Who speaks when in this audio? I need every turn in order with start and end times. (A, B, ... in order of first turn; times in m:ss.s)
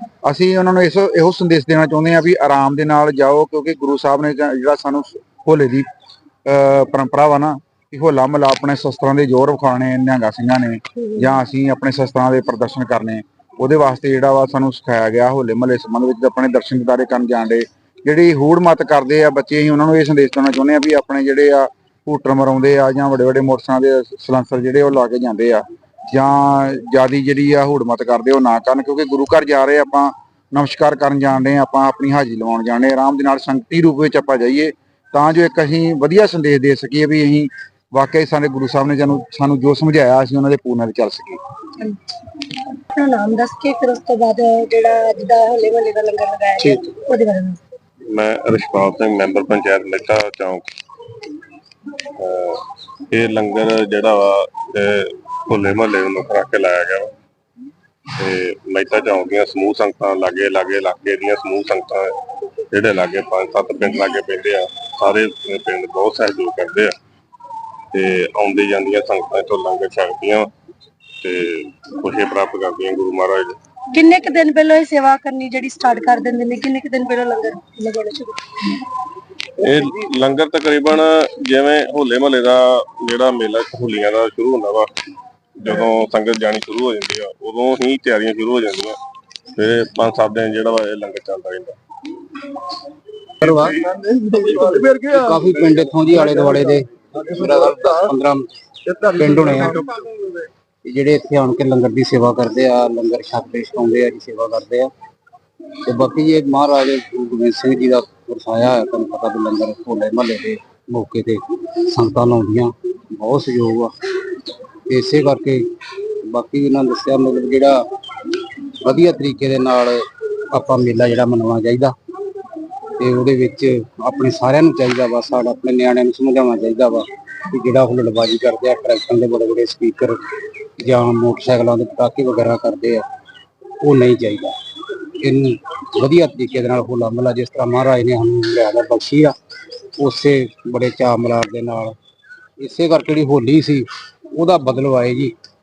0:00.2-0:05.8 A
0:06.4-0:41.4 A
0:42.9-0:47.6 B
0:48.1-0:50.6 C
0:52.2-0:57.1 C
0:58.2-1:02.1 C
1:02.7-1:06.9 C
1:07.9-1:10.5 C
1:11.2-1:13.6 C
1:13.9-1:18.4 B
1:19.6-1:24.9 C
1:25.6-1:29.0 C
1:29.6-1:31.8 C
1:33.4-1:33.9 D
1:34.4-1:39.8 D
1:40.8-1:44.9 D
1:45.8-1:53.9 D
1:54.9-1:55.6 D
1:56.3-1:57.8 D
1:58.8-2:01.9 D
2:03.0-2:10.2 D
2:10.8-2:13.0 D
2:13.8-2:14.5 D
2:15.2-2:19.3 D
2:20.0-2:22.0 D
2:22.6-2:25.3 D